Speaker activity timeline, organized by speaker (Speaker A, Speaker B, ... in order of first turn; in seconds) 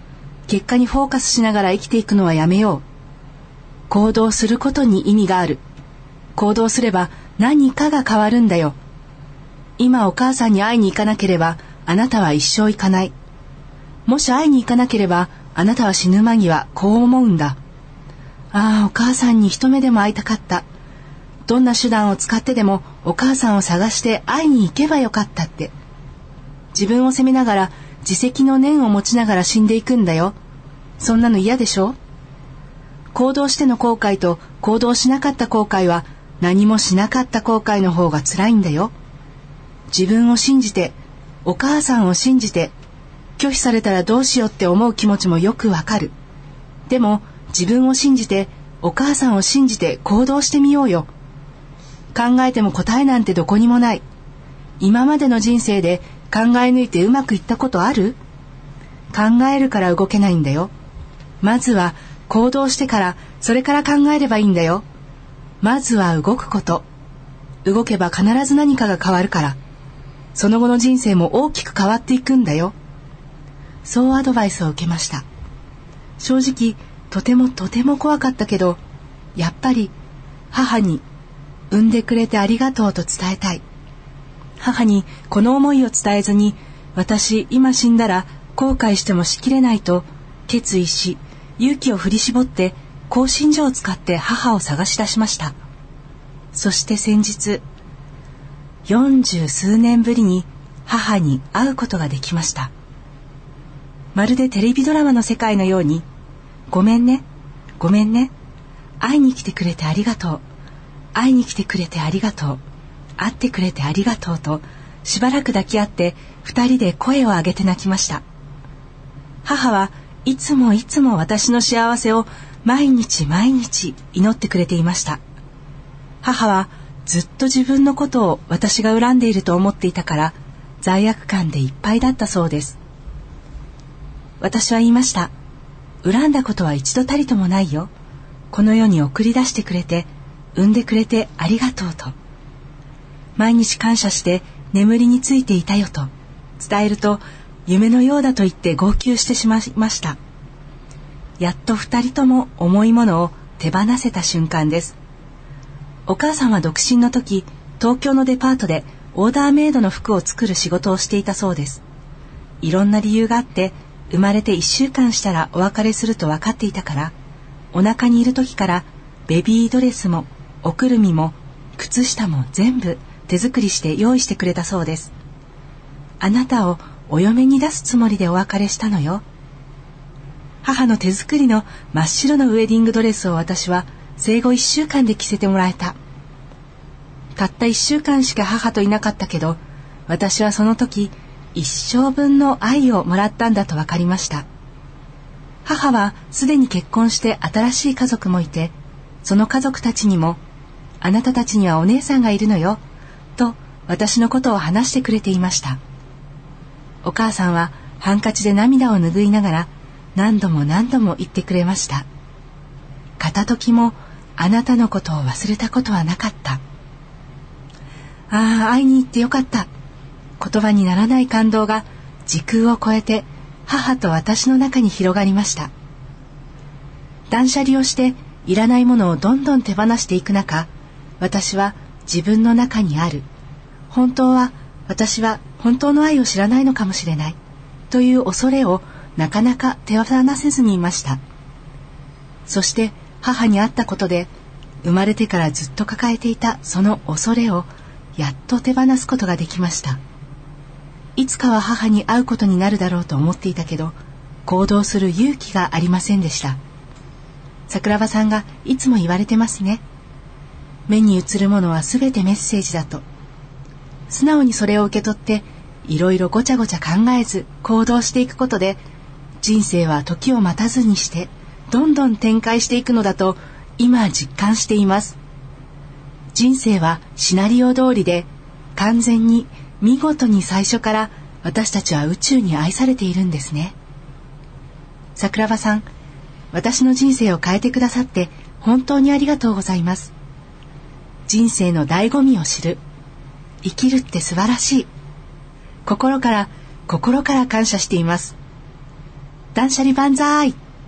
Speaker A: 0.5-2.8, 3.9-5.6, 6.3-8.8, 9.8-13.1, 14.1-17.6, 18.5-20.6, 21.4-25.7, 26.7-30.4, 31.0-32.0, 33.1-38.9, 39.9-42.7, 43.4-46.1, 46.9-51.1, 52.1-54.0, 54.8-58.2, 59.1-60.7, 61.4-64.8, 65.6-66.8, 67.6-69.6, 70.3-72.7, 73.8-75.2, 76.2-78.8, 79.3-79.9, 80.5-81.0, 81.7-83.6, 84.6-95.5, 96.5-97.6, 98.8-102.7, 104.1-106.0, 106.7-107.2, 107.8-108.3, 109.0-110.4, 111.1-112.6, 113.2-118.2, 119.4-125.2, 126.2-132.8, 134.4-135.3, 136.0-137.9, 138.5-142.1, 143.4-150.2, 151.4-154.9, 156.1-161.8, 162.6-167.1, 167.7-175.1, 176.2-179.2, 180.6-185.9, 187.3-194.4, 195.6-200.4, 201.0-202.8, 203.4-205.8, 207.0-212.1, 213.2-216.6, 218.3-219.7, 220.4-225.7, 227.3-233.2, 233.9-237.4, 237.9-241.2, 242.5-244.3, 244.8-250.0, 251.2-256.6, 257.7-259.8, 260.9-263.0, 264.1-268.8, 269.4-275.2, 276.3-283.7, 285.1-285.9, 286.5-290.1, 291.3-292.8, 293.6-294.9, 295.9-298.4, 299.5-300.6